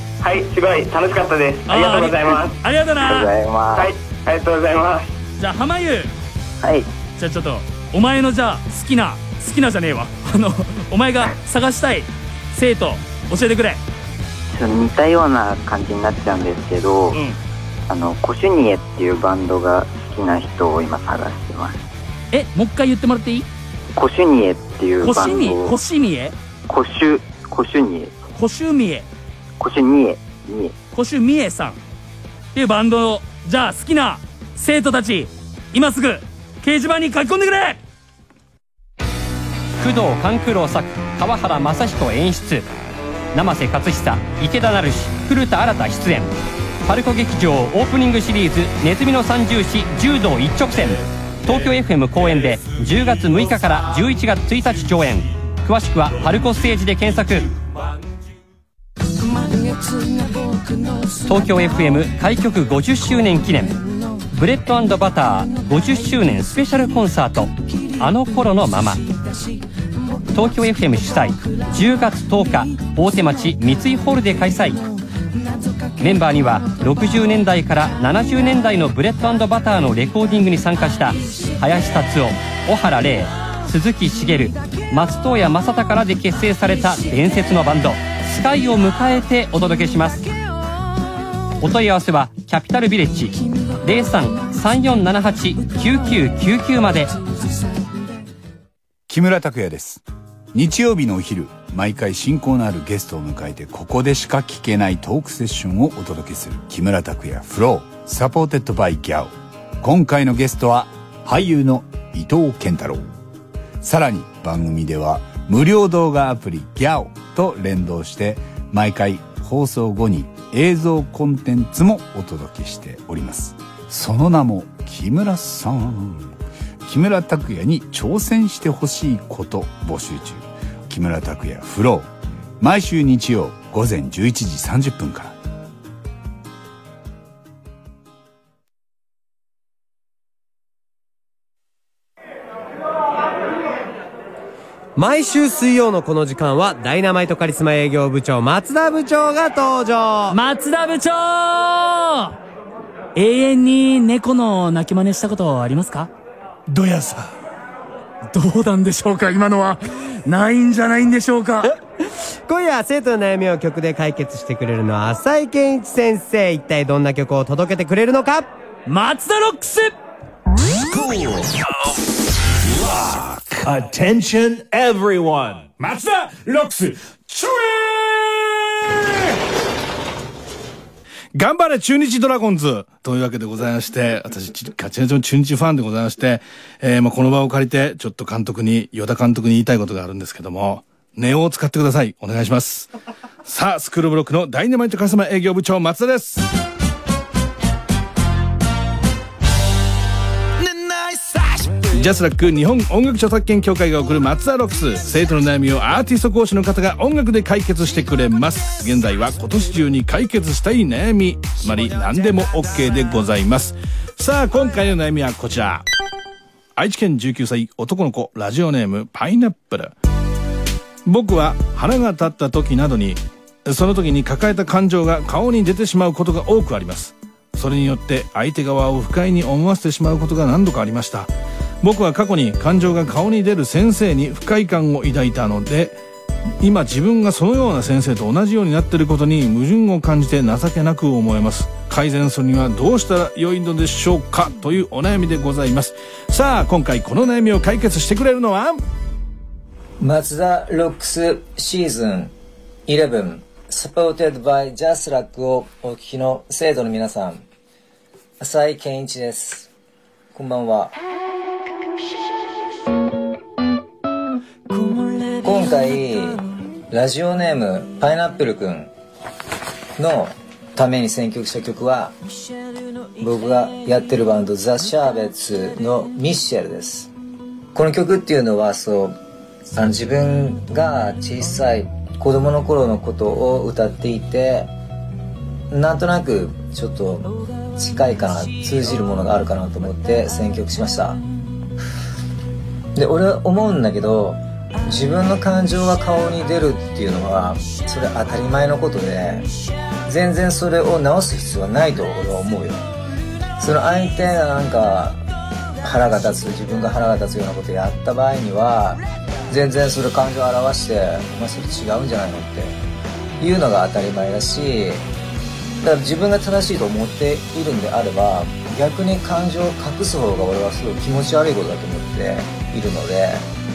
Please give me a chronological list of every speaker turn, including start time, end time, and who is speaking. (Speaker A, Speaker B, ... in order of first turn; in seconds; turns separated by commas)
Speaker A: 0.2-2.6, Speaker B: 1.7-3.3, Speaker C: 3.0-3.9, Speaker A: 3.7-5.1, Speaker B: 5.4-6.1, Speaker C: 6.6-6.9, Speaker B: 7.2-13.8, Speaker C: 14.5-17.2, Speaker C: 17.9-21.8, Speaker B: 22.3-23.5, Speaker C: 23.9-25.7, Speaker B: 25.0-26.3, Speaker C: 26.7-28.1, Speaker B: 28.4-29.1, Speaker C: 29.6-30.7, Speaker B: 30.9-31.8, Speaker B: 32.5-37.8, Speaker D: 39.8-42.6, Speaker D: 43.3-46.3, Speaker D: 46.8-57.5, Speaker D: 61.2-63.8, Speaker D: 64.3-69.0, Speaker D: 70.3-74.8, Speaker D: 76.0-90.3, Speaker D: 91.6-97.1, Speaker E: 99.1-100.0, Speaker E: 100.5-113.0, Speaker E: 113.8-126.3, Speaker E: 126.8-132.1, Speaker E: 132.6-135.3, Speaker F: 144.9-150.4, Speaker B: 150.3-152.3, Speaker B: 153.2-156.1, Speaker B: 156.7-157.1, Speaker B: 158.3-161.7, Speaker F: 162.5-168.5, Speaker B: 168.8-169.9, Speaker G: 170.9-171.9, Speaker G: 172.6-179.3, Speaker H: 181.3-192.9, Speaker H: 193.4-196.4, Speaker H: 201.9-215.8, Speaker H: 216.8-219.9, Speaker H: 221.0-236.0, Speaker H: 236.6-248.8, Speaker I: 250.0-252.3, Speaker I: 252.9-257.4, Speaker I: 258.4-259.7, Speaker I: 260.3-260.9, Speaker I: 265.4-268.9, Speaker I: 270.0-272.1, Speaker I: 273.2-277.1, Speaker I: 277.7-279.2, Speaker I: 279.7-284.7, Speaker I: 285.7-291.2, Speaker I: 292.9-299.5, Speaker I: 300.1-302.9, Speaker I: 303.6-305.2, Speaker I: 305.8-312.8, Speaker I: 313.4-315.0, Speaker I: 315.8-323.4